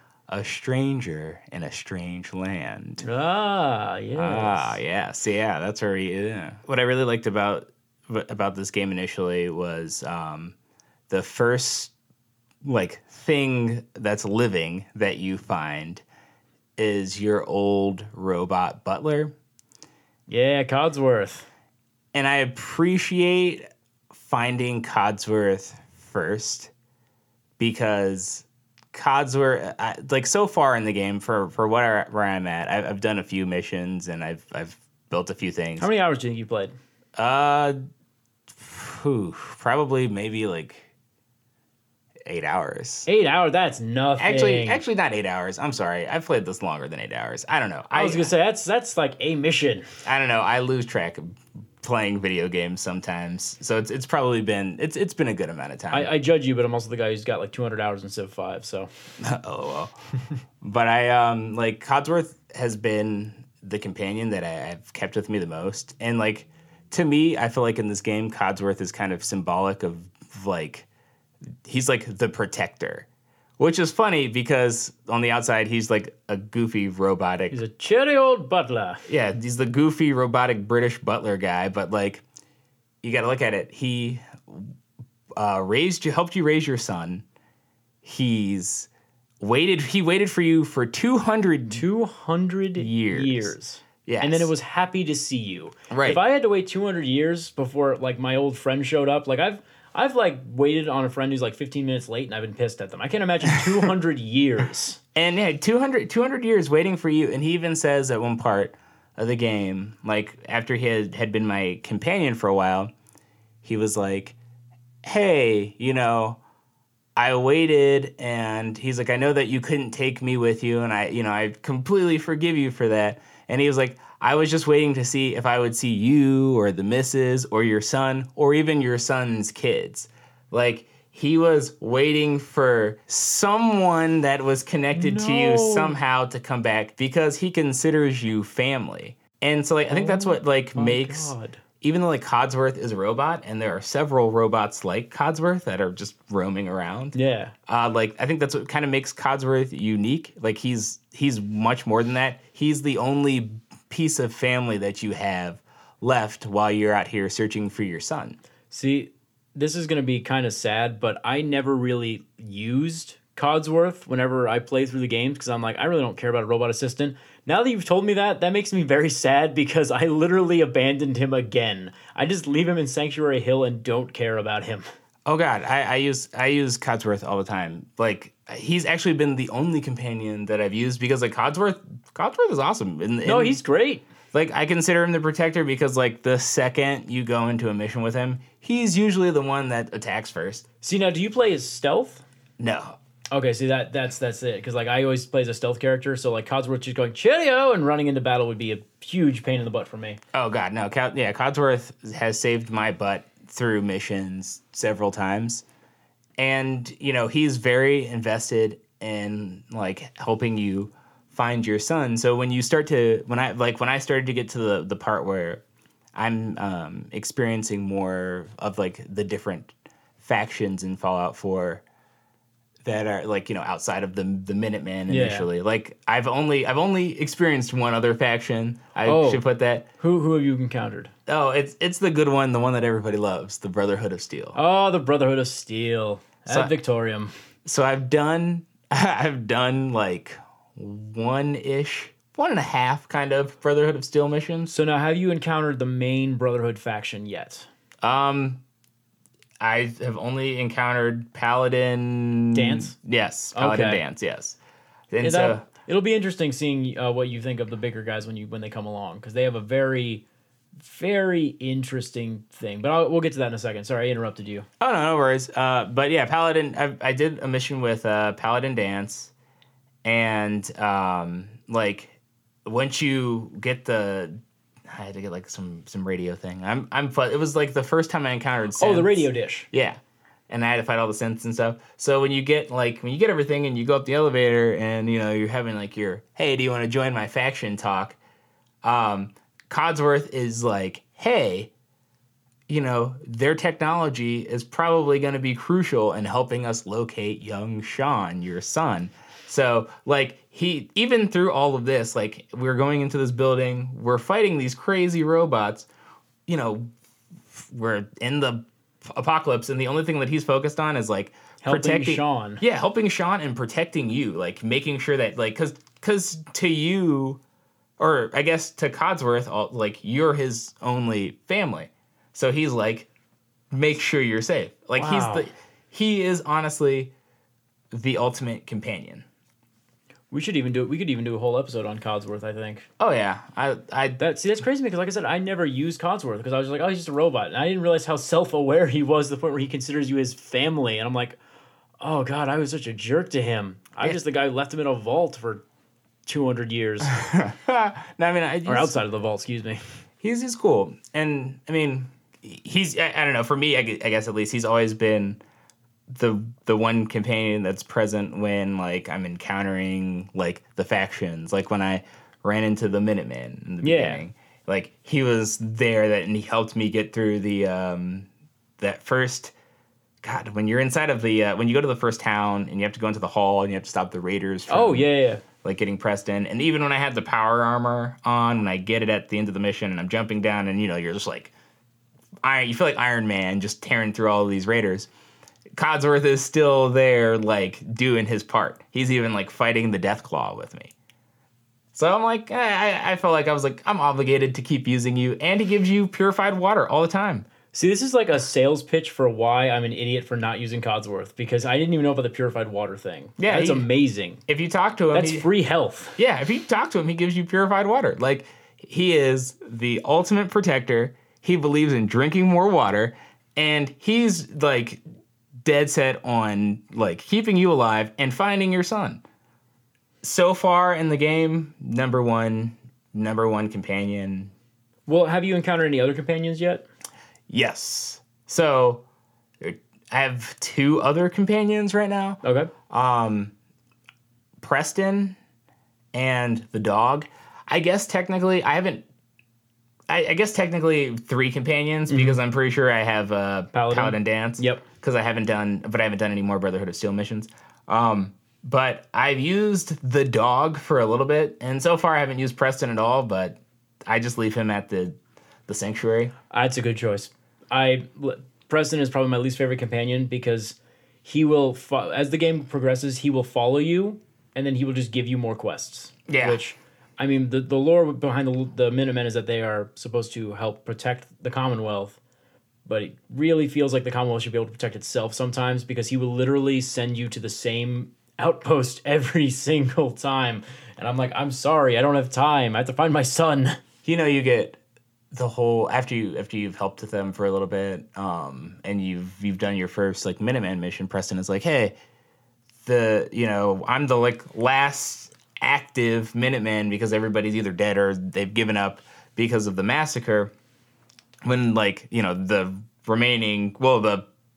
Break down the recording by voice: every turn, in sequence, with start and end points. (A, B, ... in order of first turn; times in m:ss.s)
0:00.3-0:03.0 A
0:03.0-0:04.8 B
0:04.2-0:10.5 A
0:11.1-0:11.9 A
0:12.6-0:16.0 A
0:16.8-0:19.3 A
0:20.3-0:21.5 B
0:22.1-0:26.7 A
0:27.6-0:35.9 A
0:35.8-0:36.7 B
0:37.2-0:37.8 A
0:38.5-0:40.9 A
0:42.2-0:43.1 A
0:43.0-0:44.8 B
0:44.2-0:48.3 A
0:47.9-0:49.9 B
0:50.0-0:56.1 A
0:55.9-0:58.9 B
0:59.2-0:59.9 A
1:00.6-1:10.9 A
1:11.6-1:13.1 A
1:13.6-1:17.6 A
1:17.5-1:19.0 B
1:19.1-1:22.2 A
1:23.0-1:24.7 A
1:25.4-1:27.2 A
1:28.0-1:28.9 A
1:29.4-1:31.8 A
1:31.7-1:45.0 B
1:32.8-1:34.5 A
1:35.9-1:36.2 A
1:45.1-1:52.9 A
1:53.6-1:54.4 A
1:55.0-1:56.4 A
1:57.2-2:27.2 A
2:14.9-2:16.0 B
2:19.9-2:21.6 B
2:27.1-2:27.5 B
2:27.7-2:38.4 A
2:38.7-2:54.8 B
2:55.2-3:03.6 A
3:03.2-3:04.0 B
3:04.3-3:10.6 A
3:10.8-3:12.2 B
3:12.6-3:13.0 A
3:13.3-3:20.2 B
3:20.3-3:25.6 A
3:26.4-3:35.6 A
3:36.1-3:41.8 A
3:42.8-3:49.9 A
3:45.1-3:45.5 B
3:49.0-3:49.4 B
3:50.0-3:51.1 B
3:51.3-3:54.6 A
3:54.5-3:57.3 B
3:57.6-4:04.7 A
4:04.7-4:07.7 B
4:08.0-4:08.6 A
4:09.6-4:14.6 A
4:12.5-4:13.0 B
4:13.5-4:14.0 B
4:15.1-4:15.6 A
4:15.2-4:20.2 B
4:20.8-4:24.7 B
4:24.8-4:29.3 A
4:30.0-4:48.2 A
4:38.8-4:39.7 B
4:48.8-4:51.7 A
4:52.7-5:05.9 A
5:06.5-5:06.9 A
5:07.5-5:17.4 A
5:11.6-5:12.6 B
5:18.0-5:23.1 A
5:23.7-5:27.1 A
5:25.0-5:25.5 B
5:27.9-5:29.2 A
5:30.3-5:32.9 B
5:33.0-5:34.2 A
5:34.2-5:41.4 B
5:42.0-5:45.6 B
5:46.2-5:47.1 B
5:47.0-5:48.9 A
5:48.6-5:49.8 B
5:50.2-5:55.4 A
5:56.1-6:09.5 A
6:03.8-6:04.2 B
6:10.2-6:15.1 A
6:14.7-6:15.4 B
6:15.6-6:21.5 A
6:22.4-6:25.1 A
6:25.8-6:30.9 A
6:31.9-6:37.5 A
6:37.7-6:44.4 B
6:43.4-6:43.9 A
6:44.5-6:45.4 A
6:45.1-6:46.2 B
6:46.2-6:55.0 A
6:55.6-6:59.2 A
7:00.2-7:04.5 A
7:05.1-7:06.8 B
7:07.5-7:09.0 A
7:09.6-7:13.5 A
7:12.4-7:12.7 B
7:14.6-7:15.4 A
7:16.1-7:19.0 A
7:20.1-7:36.3 A
7:22.1-7:22.4 B
7:23.7-7:24.8 B
7:36.5-7:52.2 B
7:46.3-7:46.6 A
7:52.8-8:03.8 B
8:04.0-8:04.8 A
8:05.3-8:11.9 A
8:12.8-8:20.5 A
8:21.4-8:24.3 A